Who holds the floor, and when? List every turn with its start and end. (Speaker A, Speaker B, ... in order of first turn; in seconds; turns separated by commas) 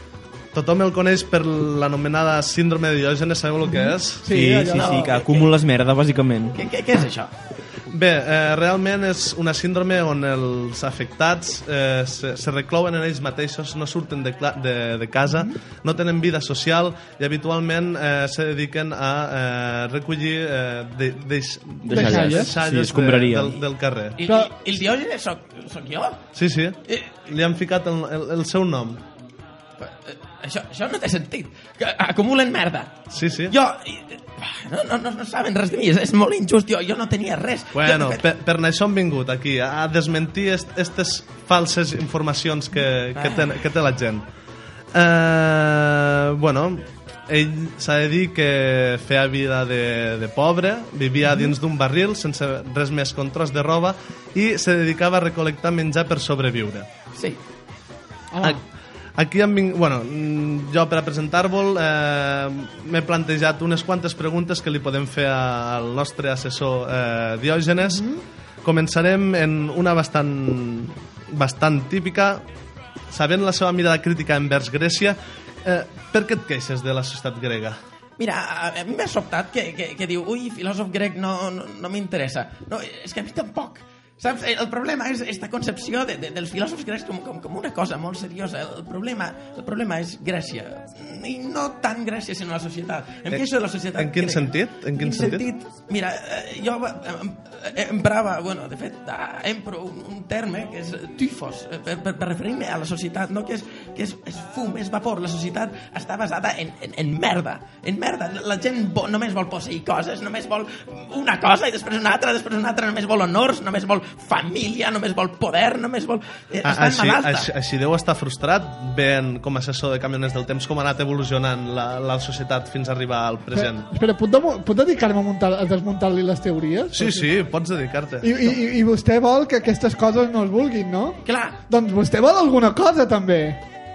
Speaker A: 0.5-4.3, Speaker B: 3.7-5.1, Speaker C: 4.2-6.6, Speaker D: 4.7-5.6, Speaker D: 6.5-7.3, Speaker A: 7.9-24.2, Speaker B: 15.3-15.6, Speaker C: 21.8-23.6, Speaker B: 21.9-22.6, Speaker D: 24.2-26.2, Speaker A: 26.3-29.0, Speaker D: 29.8-38.2, Speaker A: 33.1-33.6, Speaker A: 37.7-44.2, Speaker D: 43.2-43.6, Speaker A: 44.9-56.9, Speaker D: 57.1-57.4, Speaker B: 58.3-58.6, Speaker A: 59.2-68.1, Speaker B: 67.8-68.2, Speaker A: 68.6-72.4, Speaker A: 73.1-77.8, Speaker D: 78.2-117.5, Speaker A: 93.3-95.5, Speaker A: 116.6-123.9, Speaker B: 123.5-127.3, Speaker A: 126.9-128.6, Speaker B: 128.2-133.6, Speaker D: 131.2-131.6